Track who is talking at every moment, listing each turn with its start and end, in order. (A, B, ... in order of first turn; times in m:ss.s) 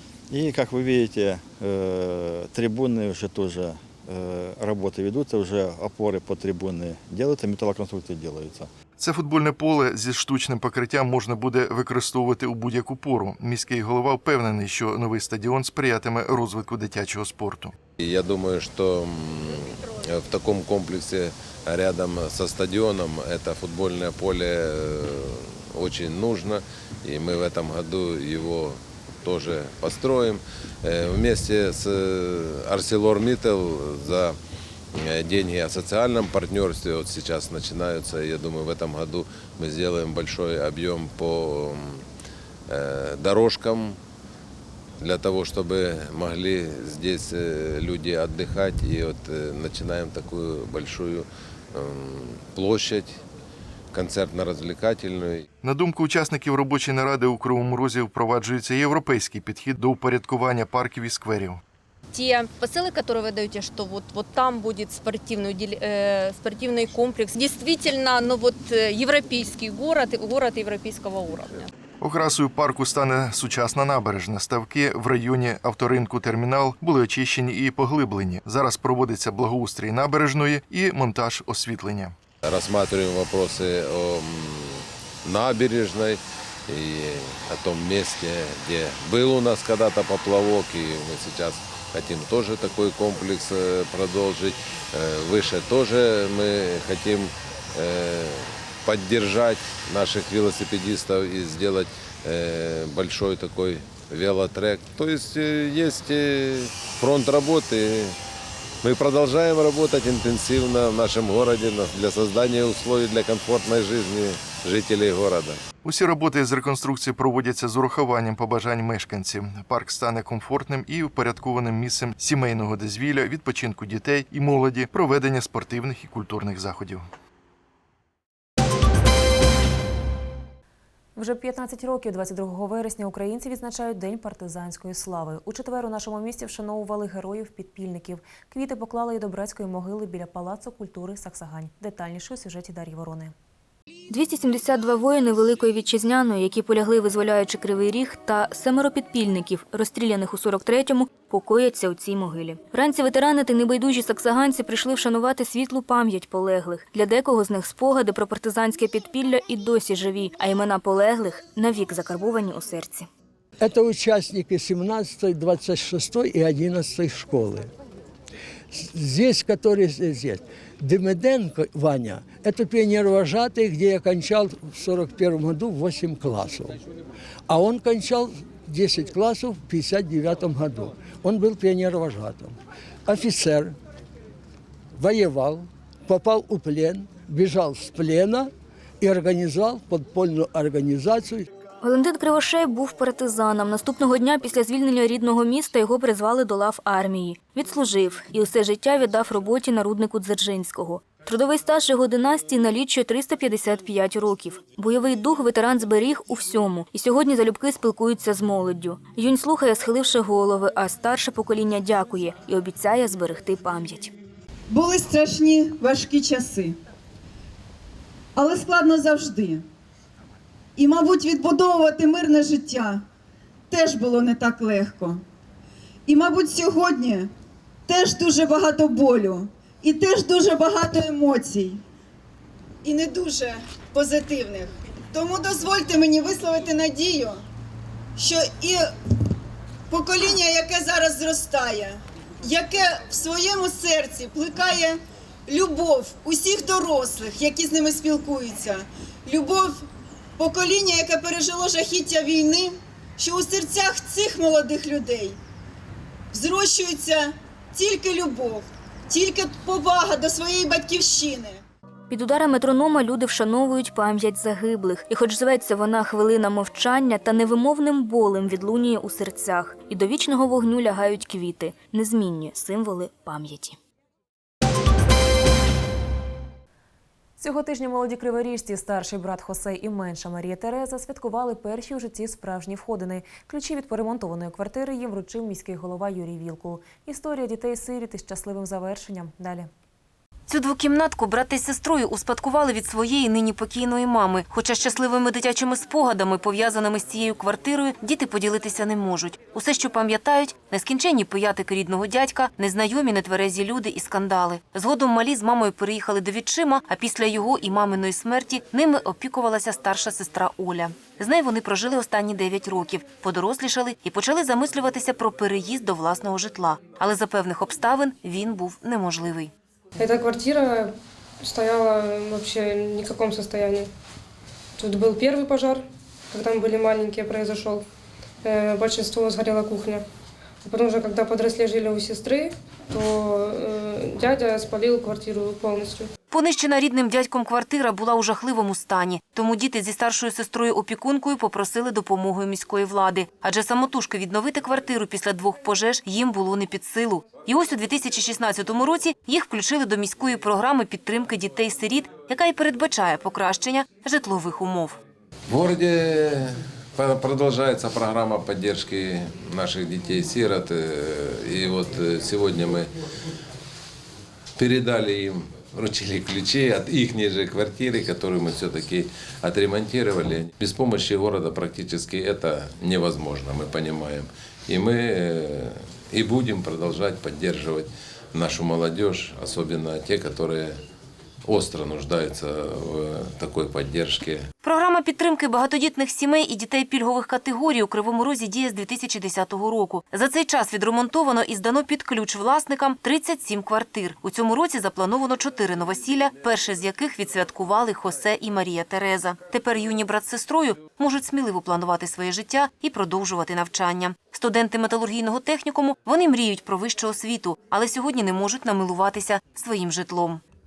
0:00.3-0:08.7 A
0:09.0-0:17.8 B
0:18.1-0:18.6 C
0:18.4-0:21.3 D
0:20.4-0:21.1 C
0:21.8-0:25.1 C
0:22.2-0:22.6 D
0:25.8-0:26.6 C
0:27.2-0:28.8 C
0:29.3-0:30.4 C
0:30.9-0:34.3 C
0:35.2-0:41.7 C
0:43.2-0:43.9 C
0:45.1-0:51.2 C
0:51.8-0:53.1 C
0:54.0-0:55.4 C
0:55.6-1:01.6 B
1:02.1-1:11.7 E
1:12.0-1:22.2 B
1:22.5-1:24.7 C
1:25.3-1:26.2 C
1:26.8-1:34.6 C
1:28.8-1:29.2 D
1:35.1-1:37.3 C
1:37.9-1:38.3 C
1:38.9-1:41.8 C
1:39.7-1:40.0 D
1:42.4-1:48.1 C
1:48.8-1:55.6 C
1:55.8-2:07.1 B
2:11.2-2:23.3 F
2:24.1-2:43.1 G
2:43.6-2:47.7 H
2:48.7-2:56.8 H
2:57.5-3:03.8 H
3:05.0-3:11.5 H
3:11.8-3:34.1 G
3:34.7-3:36.8 I
3:38.4-3:39.6 I
3:40.8-3:43.0 I
3:43.7-3:45.2 I
3:46.1-3:47.3 I
3:47.9-3:51.8 I
3:52.8-3:57.4 I
3:58.2-3:58.9 I
3:59.9-4:09.8 I
4:10.4-4:15.4 I
4:16.3-4:21.6 I
4:22.1-4:33.8 G
4:37.4-4:49.7 F
4:50.5-5:19.5 J
5:20.0-5:23.9 K
5:24.8-5:27.8 K
5:28.4-5:30.0 K
5:30.6-5:36.1 K
5:36.3-5:55.0 J
5:55.6-5:56.2 C
5:57.1-5:58.6 C
5:58.4-6:00.7 D
5:59.6-6:00.4 C
6:01.4-6:01.8 C
6:01.6-6:02.9 D
6:04.6-6:20.8 D
6:21.5-6:24.5 D
6:24.6-6:50.4 J